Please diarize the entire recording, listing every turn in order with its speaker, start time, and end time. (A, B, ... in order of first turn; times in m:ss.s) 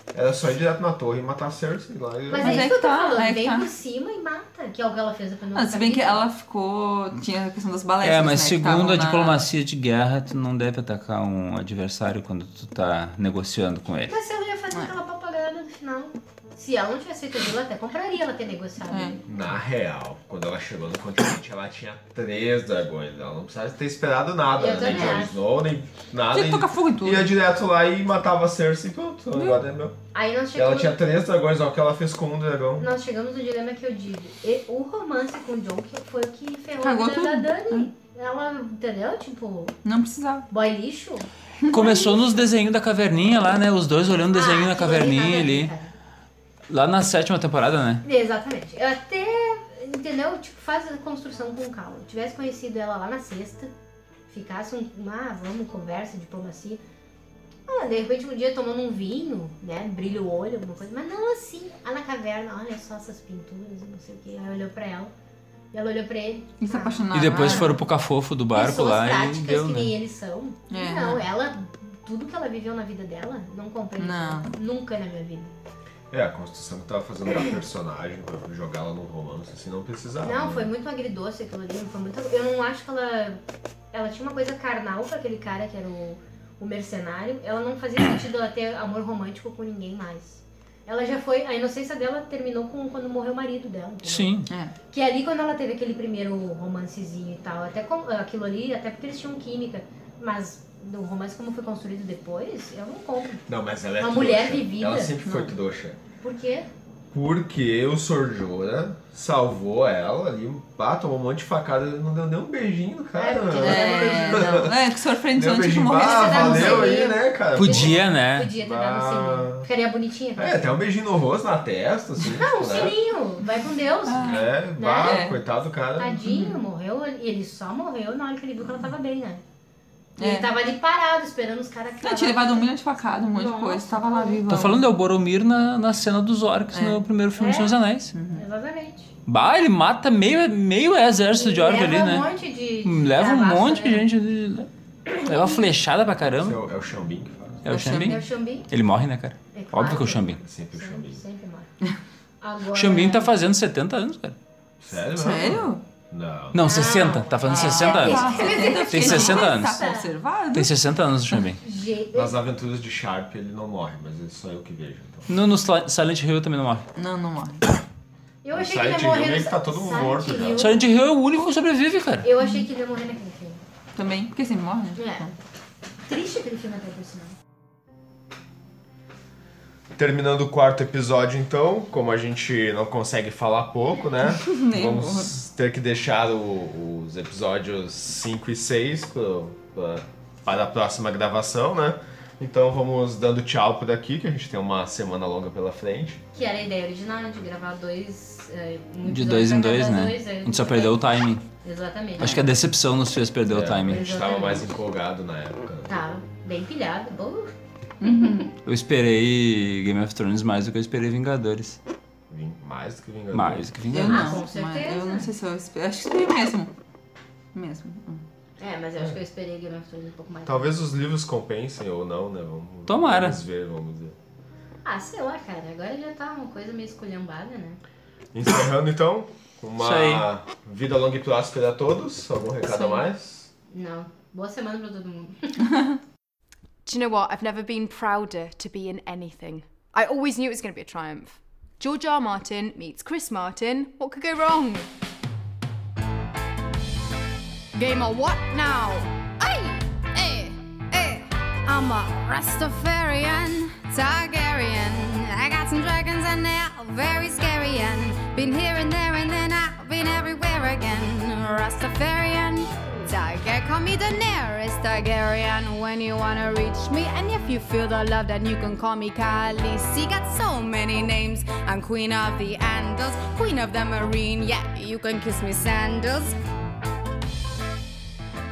0:00.1-0:02.7 A
0:02.3-0:06.2 B
0:02.4-0:03.7 C
0:05.5-0:09.4 C
0:08.0-0:14.1 D
0:14.1-0:19.3 B
0:18.9-0:19.2 C
0:19.3-0:30.0 A
0:24.5-0:25.4 B
0:24.8-0:25.3 C
0:26.3-0:27.3 C
0:29.3-0:29.6 C
0:30.1-0:31.0 B
0:30.6-0:32.9 A
0:32.8-0:39.8 B
0:36.8-0:37.9 C
0:39.8-0:40.5 C
0:40.5-0:42.4 B
0:41.6-0:42.0 C
0:41.7-0:45.7 D
0:44.3-0:45.9 B
0:46.7-0:48.0 D
0:48.0-0:53.7 B
0:54.3-0:56.8 B
0:57.7-1:05.1 B
1:05.7-1:07.7 B
1:06.6-1:07.8 C
1:07.1-1:09.9 D
1:08.5-1:15.5 B
1:10.7-1:11.2 C
1:14.0-1:14.6 C
1:16.1-1:20.7 A
1:20.2-1:23.4 B
1:23.9-1:43.4 B
1:34.0-1:34.5 D
1:43.5-1:46.0 A
1:44.0-1:45.1 B
1:45.2-1:45.6 C
1:46.2-1:46.7 B
1:47.1-1:58.0 A
1:53.2-1:54.6 B
1:53.6-1:57.0 C
1:56.0-2:00.7 B
1:57.6-1:58.5 D
1:58.6-1:59.7 A
2:00.4-2:03.0 A
2:02.2-2:05.3 B
2:04.1-2:04.5 C
2:04.2-2:06.2 A
2:05.0-2:05.4 C
2:06.0-2:09.4 B
2:06.2-2:06.6 C
2:10.2-2:12.7 B
2:10.2-2:10.5 C
2:12.0-2:14.8 C
2:13.3-2:14.4 B
2:14.5-2:18.1 D
2:16.7-2:17.0 C
2:17.4-2:17.8 B
2:18.1-2:18.4 C
2:18.3-2:19.1 B
2:19.3-2:22.3 D
2:21.3-2:24.1 B
2:22.8-2:24.7 D
2:25.1-2:25.6 B
2:25.2-2:26.6 D
2:26.4-2:27.9 A
2:27.6-2:30.4 D
2:27.7-2:28.7 B
2:27.7-2:28.2 C
2:29.5-2:31.7 B
2:30.4-2:31.2 A
2:32.4-2:33.3 B
2:32.7-2:34.4 D
2:34.8-2:36.9 A
2:35.1-2:35.8 C
2:36.5-2:39.9 D
2:36.6-2:40.1 B
2:37.5-2:40.8 C
2:40.5-2:41.6 D
2:41.6-2:42.4 B
2:42.1-2:45.4 A
2:45.3-2:46.9 D
2:47.0-2:47.6 C
2:48.4-2:50.8 B
2:48.5-2:50.7 A
2:50.6-2:52.3 D
2:52.2-2:53.6 B
2:54.0-2:55.3 C
2:55.0-2:55.3 B
2:56.1-2:57.3 B
3:00.0-3:16.2 A
3:04.4-3:05.3 C
3:16.3-3:21.0 B
3:19.0-3:21.4 D
3:21.6-3:22.4 B
3:22.2-3:24.0 D
3:22.2-3:22.4 C
3:23.5-3:26.0 A
3:23.9-3:24.7 B
3:25.9-3:27.5 B
3:28.0-3:28.5 C
3:28.6-3:31.8 D
3:32.3-3:33.7 A
3:33.3-3:34.4 D
3:33.9-3:36.7 C
3:34.1-3:35.3 B
3:37.5-3:38.2 C
3:38.6-3:40.8 B
3:40.5-3:44.2 A
3:42.9-3:43.4 D
3:44.8-3:47.8 B
3:48.3-3:53.5 A
3:49.8-3:50.3 D
3:52.7-3:53.0 C
3:53.7-3:55.6 B
3:56.8-4:04.9 E
4:07.7-4:36.4 E